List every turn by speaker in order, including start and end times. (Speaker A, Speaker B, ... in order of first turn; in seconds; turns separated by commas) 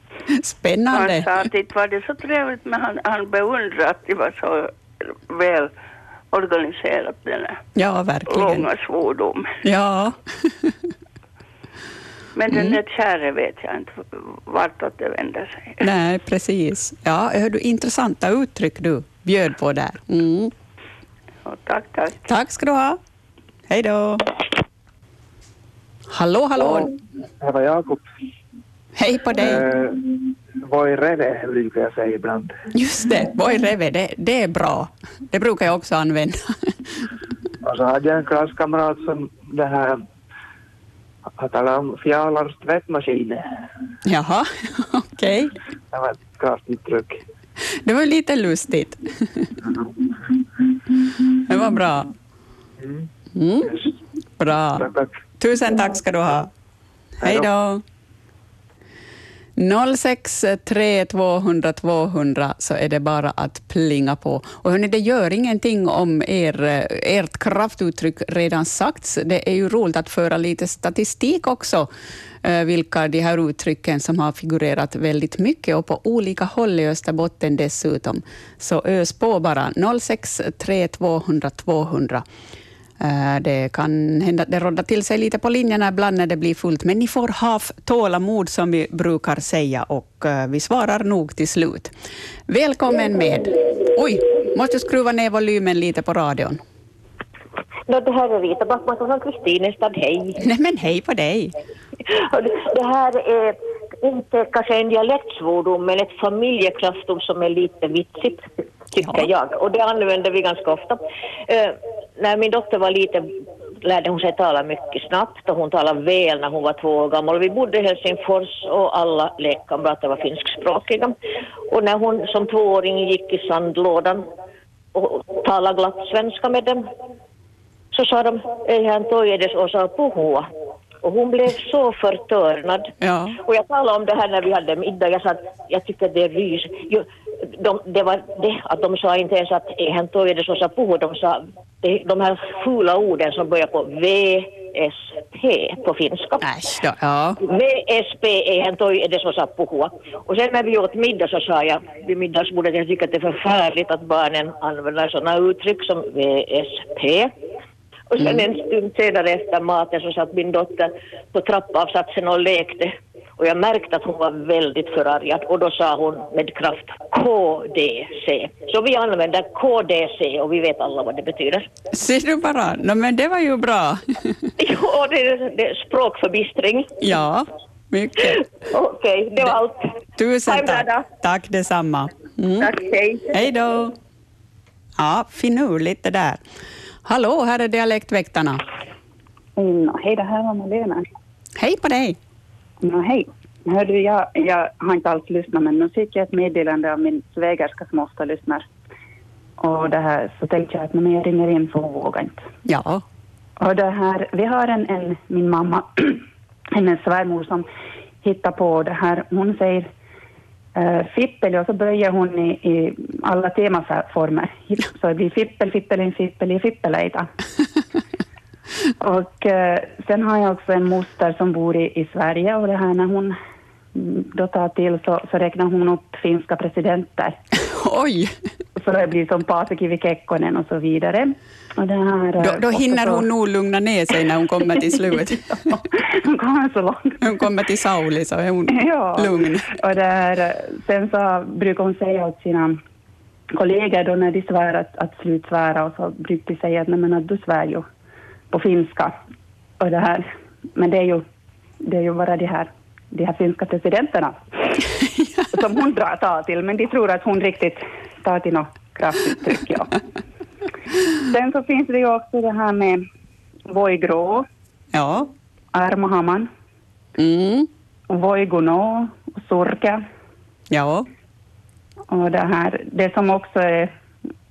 Speaker A: 0.3-1.3, Speaker B: 0.9-4.7, Speaker B: 5.3-5.7, Speaker B: 6.3-7.6, Speaker A: 7.7-8.7, Speaker B: 8.3-9.5, Speaker A: 9.6-10.7, Speaker B: 12.3-15.8, Speaker A: 12.5-12.8, Speaker A: 15.8-20.5, Speaker B: 21.4-22.2, Speaker A: 22.3-23.0, Speaker A: 23.7-24.3, Speaker A: 26.1-26.9, Speaker C: 27.4-28.0, Speaker A: 29.0-29.6, Speaker C: 29.4-32.6, Speaker A: 32.7-36.5, Speaker C: 37.6-40.0, Speaker C: 41.4-43.6, Speaker A: 44.0-45.5, Speaker C: 45.9-47.2, Speaker A: 47.8-49.5, Speaker A: 51.4-52.1, Speaker A: 53.3-53.9, Speaker A: 54.4-56.5, Speaker C: 54.8-55.1, Speaker A: 57.2-57.8, Speaker A: 59.6-71.9, Speaker A: 72.4-82.2, Speaker A: 83.0-91.9, Speaker A: 92.5-96.6, Speaker D: 97.9-100.4, Speaker A: 100.4-101.5, Speaker D: 102.1-113.3, Speaker A: 109.0-109.3, Speaker D: 113.8-121.1, Speaker D: 121.7-124.2, Speaker D: 124.9-126.9, Speaker D: 127.9-130.5, Speaker D: 131.0-146.4, Speaker A: 133.0-133.4, Speaker A: 146.4-147.4, Speaker D: 147.4-157.3, Speaker D: 158.1-171.7, Speaker A: 171.9-174.3, Speaker D: 174.6-176.9, Speaker A: 177.0-178.4, Speaker D: 178.2-179.8, Speaker A: 180.2-182.7, Speaker D: 180.4-181.0, Speaker D: 182.6-183.3, Speaker A: 183.3-183.9, Speaker A: 185.0-186.4, Speaker A: 187.0-188.6, Speaker E: 189.6-191.0, Speaker A: 191.6-192.2, Speaker E: 192.8-198.6, Speaker E: 199.6-202.4, Speaker A: 202.7-203.0, Speaker E: 203.6-206.2, Speaker E: 206.7-207.7, Speaker E: 208.2-209.9, Speaker E: 210.7-217.3, Speaker E: 219.0-223.3, Speaker E: 223.9-227.3, Speaker A: 227.7-228.3, Speaker E: 228.8-233.2, Speaker A: 232.4-235.4, Speaker E: 235.5-237.2, Speaker A: 237.2-239.7, Speaker E: 238.7-242.8, Speaker E: 243.5-247.8, Speaker E: 248.5-249.1, Speaker E: 249.8-251.2, Speaker E: 251.8-254.8, Speaker E: 255.5-259.9, Speaker E: 261.3-263.0, Speaker E: 263.7-264.4, Speaker A: 264.9-265.3, Speaker E: 265.7-266.5, Speaker A: 267.2-267.7, Speaker E: 268.1-270.0, Speaker A: 270.7-271.1, Speaker E: 272.1-273.9